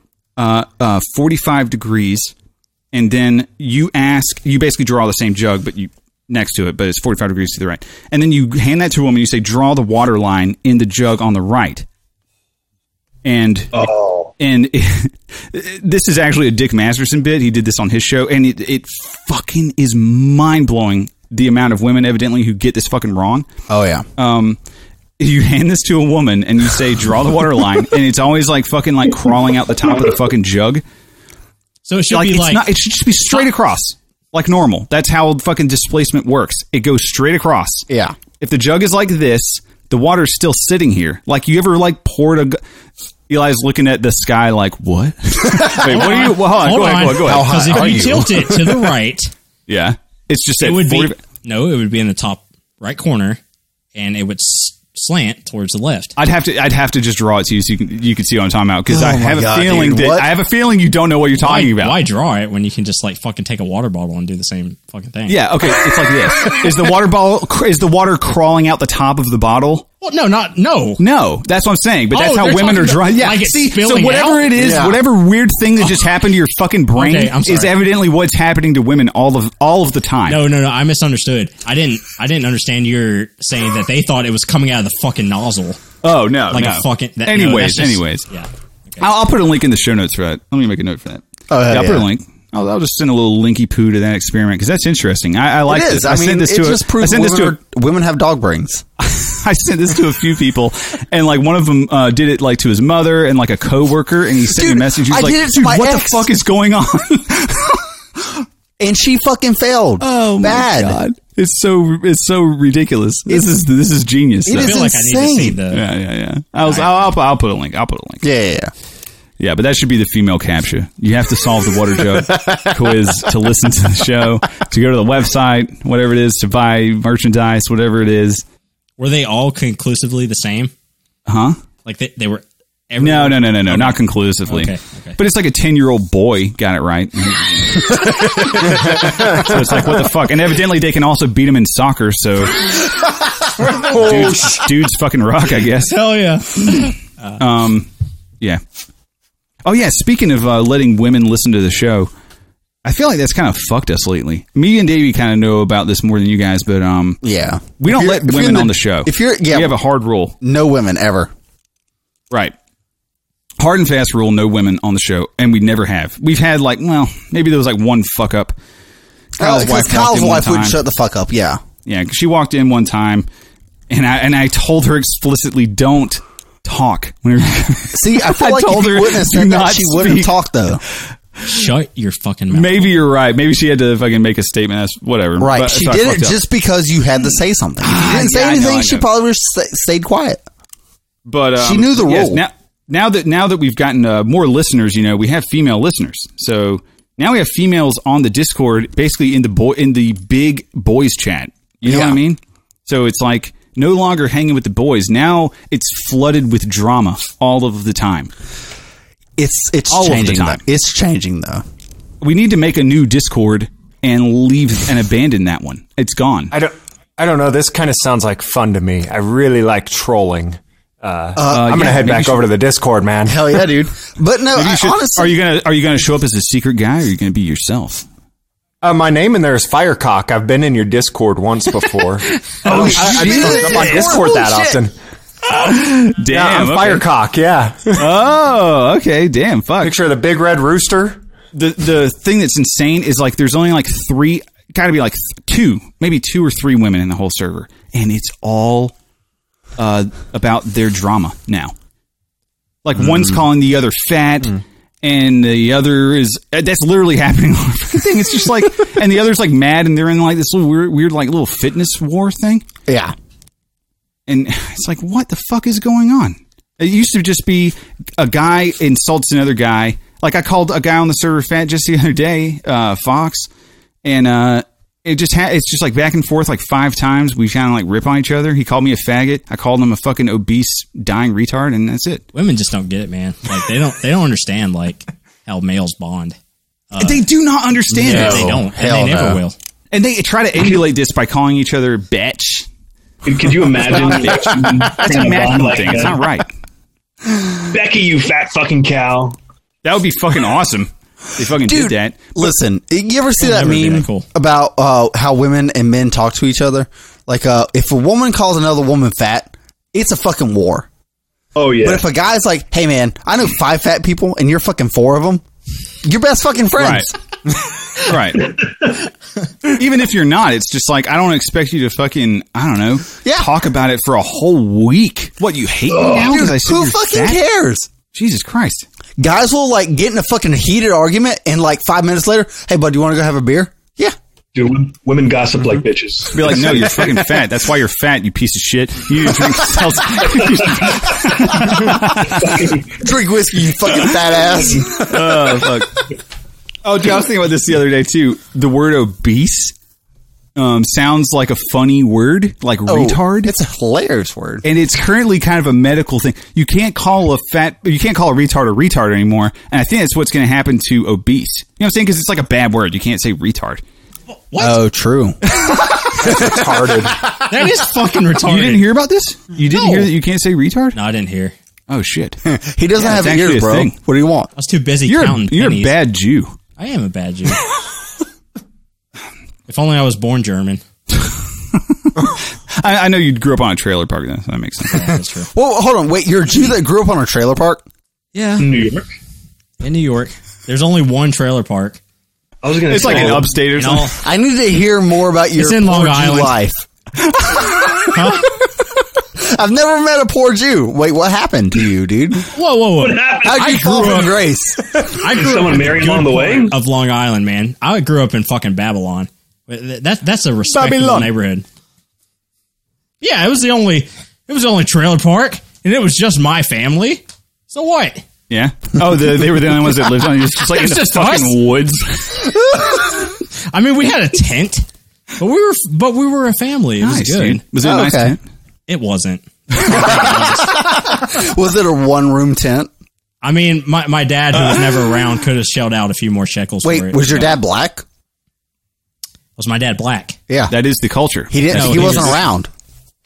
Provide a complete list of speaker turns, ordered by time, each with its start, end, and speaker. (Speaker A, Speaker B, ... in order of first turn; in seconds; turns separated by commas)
Speaker A: 0.4-2.3, Speaker A: 2.9-11.8, Speaker A: 13.2-23.5, Speaker B: 13.7-14.3, Speaker C: 23.7-24.0, Speaker A: 24.2-24.6, Speaker A: 25.2-30.8, Speaker D: 31.8-32.6, Speaker A: 32.1-37.9, Speaker C: 37.9-38.1, Speaker A: 38.4-42.6, Speaker A: 43.3-48.2, Speaker D: 45.8-49.3, Speaker C: 47.2-48.8, Speaker A: 49.7-51.2, Speaker D: 50.6-53.4, Speaker D: 53.9-56.1, Speaker A: 56.2-62.0, Speaker C: 58.9-60.3, Speaker D: 61.4-65.4, Speaker A: 65.3-69.9, Speaker D: 70.0-71.0, Speaker A: 71.0-80.4, Speaker D: 72.1-74.5, Speaker C: 74.5-75.0, Speaker D: 77.0-77.8, Speaker D: 80.3-85.8, Speaker A: 86.0-88.2, Speaker D: 86.5-89.0, Speaker A: 89.0-97.6, Speaker C: 91.5-92.1, Speaker C: 95.7-98.8, Speaker A: 99.0-108.3, Speaker C: 104.5-106.3, Speaker C: 108.8-111.0, Speaker A: 110.0-114.8, Speaker C: 114.5-115.6, Speaker D: 114.5-115.8, Speaker A: 115.7-118.2, Speaker C: 118.2-118.7, Speaker A: 119.4-128.4, Speaker C: 122.3-122.7, Speaker D: 129.0-130.7, Speaker A: 131.3-131.6, Speaker D: 131.8-135.2, Speaker A: 133.0-142.9, Speaker E: 143.7-144.6, Speaker A: 143.8-146.0, Speaker D: 145.9-147.4, Speaker A: 146.6-147.9, Speaker A: 149.6-152.1, Speaker A: 152.8-157.2, Speaker C: 157.2-159.8, Speaker A: 157.8-160.3, Speaker C: 160.4-161.3, Speaker A: 163.6-168.5, Speaker A: 169.4-170.8, Speaker C: 169.4-171.6, Speaker A: 171.8-173.3, Speaker A: 173.9-180.3, Speaker C: 177.9-180.8, Speaker D: 181.4-182.9, Speaker A: 182.5-186.4, Speaker C: 185.4-190.4, Speaker A: 187.8-189.1, Speaker A: 191.2-208.3, Speaker C: 191.6-192.4, Speaker C: 201.8-202.2, Speaker C: 209.4-211.6, Speaker A: 209.9-210.6, Speaker A: 212.2-216.5, Speaker E: 216.5-223.5, Speaker C: 221.3-222.0, Speaker A: 221.5-222.4, Speaker C: 223.3-225.3, Speaker A: 224.5-228.1, Speaker E: 228.8-234.9, Speaker C: 232.6-234.8, Speaker B: 232.7-233.2, Speaker A: 232.7-234.0, Speaker A: 235.5-237.0, Speaker E: 236.3-238.1, Speaker A: 237.9-239.9, Speaker E: 239.8-241.2, Speaker A: 241.5-248.9, Speaker A: 249.8-251.7, Speaker A: 252.8-262.6, Speaker C: 262.9-263.1, Speaker A: 264.3-273.5, Speaker A: 274.0-282.2, Speaker D: 282.3-286.4, Speaker D: 286.9-287.2, Speaker A: 287.0-288.6, Speaker D: 287.9-289.5, Speaker C: 288.0-289.4, Speaker A: 289.9-292.7, Speaker B: 293.2-296.2, Speaker A: 293.8-296.5, Speaker B: 297.7-299.4, Speaker A: 299.8-302.4, Speaker C: 301.6-310.9, Speaker D: 303.4-304.2, Speaker B: 311.5-312.0, Speaker C: 311.8-315.4, Speaker C: 316.0-317.1, Speaker A: 316.8-317.1, Speaker A: 318.0-318.5, Speaker A: 319.7-327.4, Speaker C: 323.2-323.5, Speaker B: 325.9-326.3, Speaker C: 326.1-327.9, Speaker A: 328.1-328.9, Speaker C: 329.2-334.1, Speaker B: 334.5-337.0, Speaker A: 336.3-342.6, Speaker B: 342.4-342.9, Speaker C: 343.0-345.4, Speaker A: 344.9-346.0, Speaker A: 346.8-349.7, Speaker A: 350.6-353.5, Speaker C: 352.9-354.6, Speaker A: 354.6-363.8, Speaker D: 364.3-364.8, Speaker C: 364.6-365.4, Speaker E: 366.2-367.2, Speaker D: 367.5-368.9, Speaker A: 368.4-371.0, Speaker D: 369.7-370.1, Speaker D: 370.9-371.5, Speaker A: 371.9-372.4, Speaker C: 372.4-374.5, Speaker A: 373.0-373.9, Speaker D: 374.6-375.9, Speaker A: 375.1-376.6, Speaker D: 376.8-377.6, Speaker D: 379.7-380.8, Speaker A: 381.7-385.1, Speaker D: 384.9-385.5, Speaker C: 385.5-387.8, Speaker D: 388.3-388.7, Speaker B: 388.6-389.0, Speaker D: 389.8-392.0, Speaker B: 392.6-393.5, Speaker A: 392.9-394.1, Speaker D: 393.0-394.2, Speaker C: 394.2-396.9, Speaker D: 395.6-396.5, Speaker D: 398.1-398.5, Speaker C: 399.3-402.5, Speaker D: 402.5-404.4, Speaker B: 403.0-404.2, Speaker C: 403.4-405.0, Speaker D: 405.0-411.6, Speaker B: 405.2-406.8, Speaker A: 410.7-411.3, Speaker D: 413.2-418.2, Speaker A: 418.5-422.6, Speaker D: 420.7-421.6, Speaker D: 423.7-424.9, Speaker D: 425.4-427.6, Speaker A: 427.0-428.4, Speaker C: 427.8-428.4, Speaker D: 428.9-430.8, Speaker C: 429.8-432.9, Speaker D: 433.4-437.5, Speaker C: 436.8-438.0, Speaker D: 439.6-440.4, Speaker C: 440.5-440.7, Speaker A: 440.7-442.4, Speaker C: 441.5-442.7, Speaker D: 441.7-442.4